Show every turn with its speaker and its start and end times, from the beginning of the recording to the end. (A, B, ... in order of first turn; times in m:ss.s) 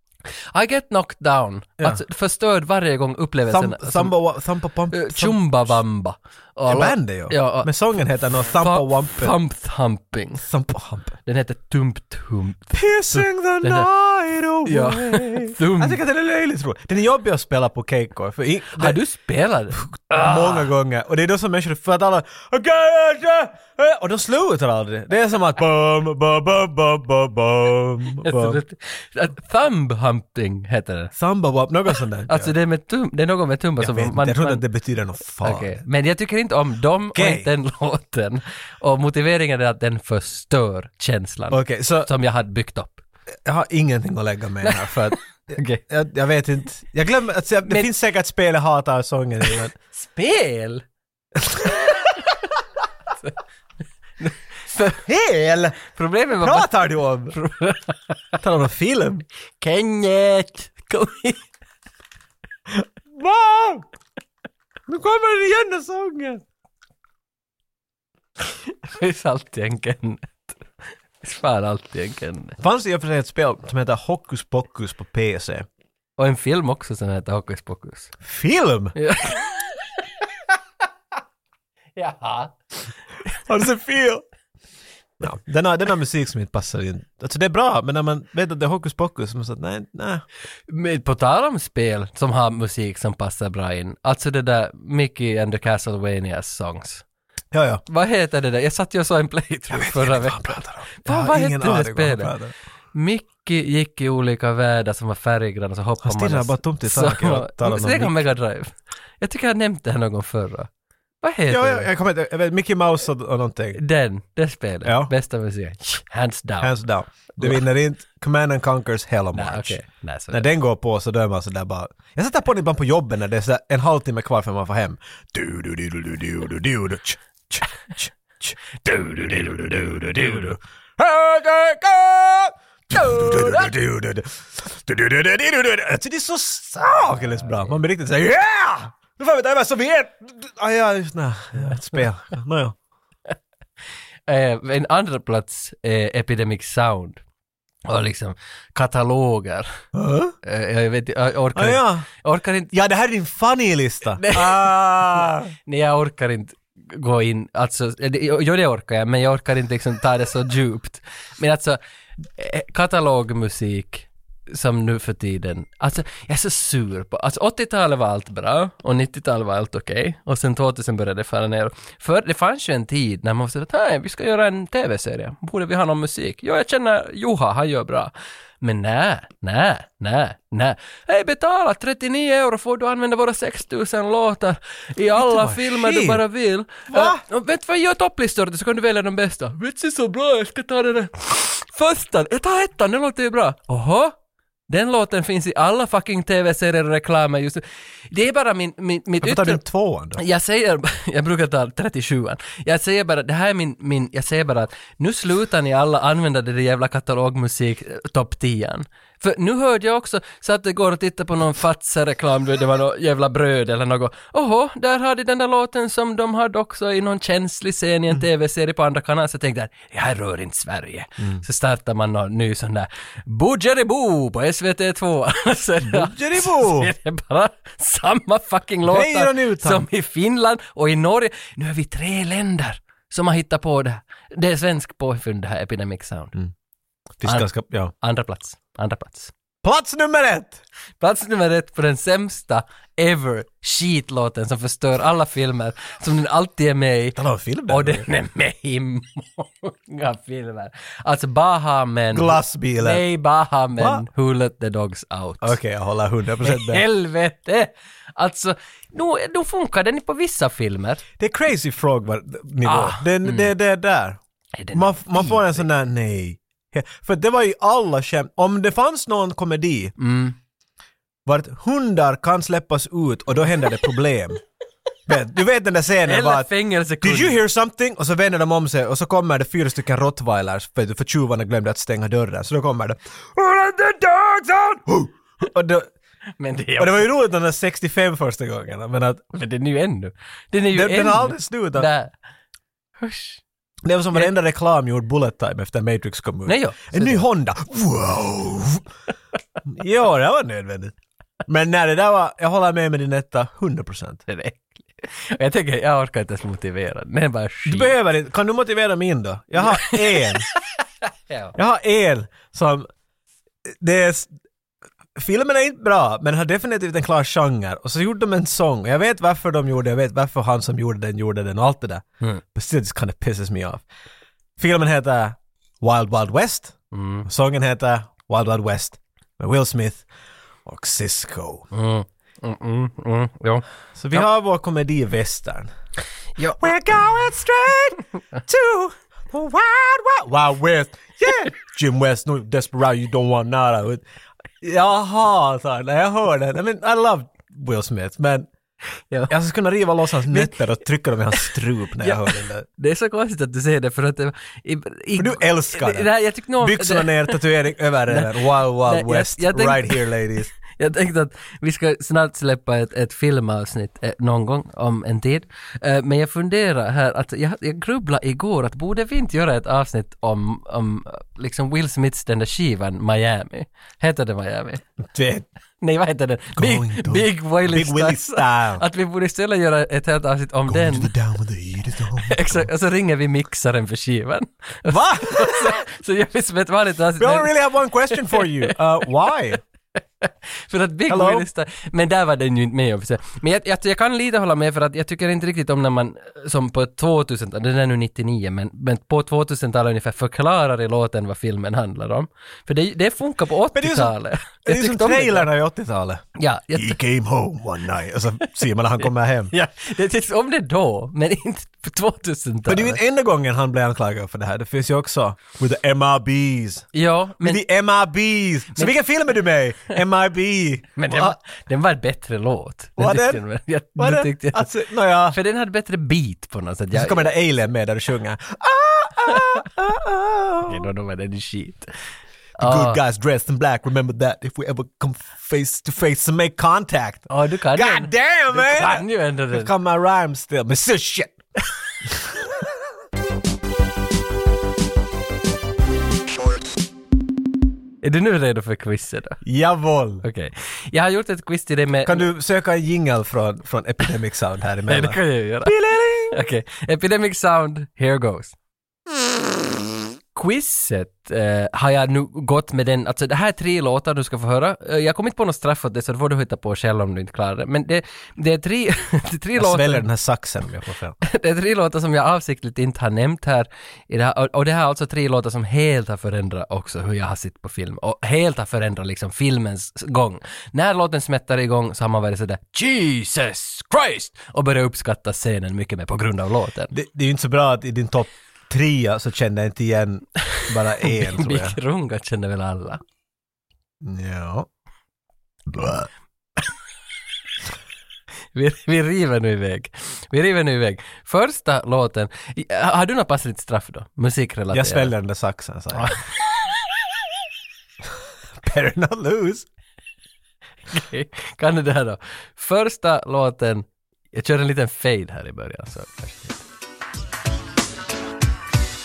0:00.5-0:04.2 A
0:03.5-0:05.8 B
0:04.9-0:07.7 A
0:06.7-0:09.4 B
0:08.6-0:10.5 A
0:10.4-0:11.2 B
0:11.3-0:13.9 A
0:12.7-0:19.0 B
0:14.6-0:16.0 A
0:18.8-0:20.7 A
0:19.8-0:28.6 B
0:28.2-0:31.1 A
0:31.2-0:32.5 B
0:32.3-0:34.6 A
0:33.8-0:35.8 B
0:35.4-0:43.0 A
0:37.1-0:37.5 B
0:41.5-0:42.1 B
0:43.4-0:49.8 B
0:44.6-0:45.8 A
0:49.9-0:50.8 A
0:51.4-0:52.0 B
0:54.2-0:55.0 A
0:55.0-0:55.8 B
0:55.8-0:56.7 A
0:56.4-0:57.4 B
0:57.3-0:58.4 A
0:58.4-0:59.2 B
0:59.6-1:01.5 A
1:02.7-1:03.8 B
1:04.9-1:06.4 B
1:08.4-1:10.6 A
1:11.2-1:12.6 A
1:12.6-1:15.7 B
1:16.2-1:18.1 A
1:18.2-1:19.0 B
1:19.0-1:20.2 A
1:22.0-1:22.6 A
1:23.4-1:24.2 B
1:25.2-1:30.2 B
1:30.7-1:37.0 A
1:37.5-1:37.8 B
1:37.9-1:42.3 A
1:39.7-1:42.5 B
1:42.9-1:50.7 A
1:46.0-1:48.2 B
1:51.2-1:51.9 A
1:51.5-1:53.8 B
1:53.8-1:56.7 A
1:54.8-1:55.1 B
1:56.6-1:59.8 B
1:59.3-2:00.5 A
2:00.3-2:22.8 B
2:08.9-2:10.5 A
2:13.0-2:13.7 A
2:24.3-2:27.2 A
2:27.9-2:29.8 A
2:29.9-2:30.4 B
2:30.4-2:32.7 A
2:31.6-2:32.1 B
2:32.7-2:35.5 B
2:34.2-3:14.2 A
3:05.2-3:06.2 B
3:06.9-3:07.2 B
3:14.7-3:19.6 A
3:19.2-3:20.2 B
3:20.2-3:56.4 A
3:45.8-3:46.9 B
3:48.9-3:49.9 B
3:57.2-3:57.9 B
3:58.0-3:59.3 A
3:59.6-4:00.6 B
4:01.0-4:15.6 A
4:07.2-4:08.1 B
4:12.1-4:13.0 B
4:13.8-4:14.0 B
4:15.4-4:16.8 B
4:16.4-4:21.0 A
4:21.2-4:24.2 B
4:22.6-4:23.5 A
4:24.6-4:25.6 A
4:24.7-4:29.9 B
4:30.0-4:30.4 A
4:31.3-4:34.4 B
4:35.1-4:36.5 B
4:36.0-4:37.4 A
4:37.0-4:45.9 B
4:46.4-4:47.1 A
4:46.8-4:49.3 B
4:49.3-4:52.1 A
4:50.7-4:51.9 B
4:53.0-4:53.4 A
4:53.8-4:58.9 B
4:56.5-4:57.2 A
4:59.7-5:01.0 B
5:01.5-5:04.2 B
5:04.3-5:08.0 A
5:07.6-5:10.5 B
5:09.6-5:10.6 A
5:11.3-5:11.5 A
5:11.6-5:12.9 B
5:13.7-5:14.3 B
5:15.2-5:23.8 B
5:24.6-5:30.1 B
5:26.9-5:27.3 A
5:30.6-5:31.7 B
5:31.7-5:34.2 A
5:34.0-5:35.7 B
5:36.5-5:44.0 B
5:44.6-5:48.5 B
5:49.3-5:52.7 B
5:52.0-5:57.4 A
5:55.2-6:00.5 B
5:58.1-6:00.0 A
6:00.6-6:14.8 A
6:15.0-6:15.5 B
6:15.8-6:21.1 A
6:16.6-6:18.8 B
6:20.7-6:22.7 B
6:22.2-6:27.5 A
6:24.9-6:25.8 B
6:27.2-6:29.6 B
6:28.1-6:28.7 A
6:30.2-6:45.5 A
6:31.1-6:31.5 B
6:43.7-6:49.5 B
6:46.4-6:47.0 A
6:49.5-6:53.0 A
6:52.7-6:56.9 B
6:56.9-6:57.6 A
6:57.4-7:01.4 B
7:01.0-7:04.7 A
7:03.0-7:03.4 B
7:04.0-7:05.4 B
7:05.3-7:07.3 A
7:06.9-7:10.9 B
7:10.7-7:11.9 A
7:12.6-7:13.0 A
7:12.6-7:21.4 B
7:17.3-7:19.7 A
7:22.1-7:22.7 B
7:28.0-7:29.4 A
7:29.4-7:30.2 B
7:30.2-7:32.3 A
7:32.1-7:36.4 B
7:34.9-7:35.7 A
7:36.3-7:38.6 A
7:40.4-7:50.0 A
7:49.6-7:51.2 B
7:51.2-8:06.9 A
8:06.9-8:11.8 B
8:10.5-8:13.0 A
8:14.0-8:14.7 B
8:15.7-8:16.1 B
8:18.5-8:25.1 A
8:24.7-8:26.2 B
8:28.6-8:29.7 B
8:30.9-8:36.6 A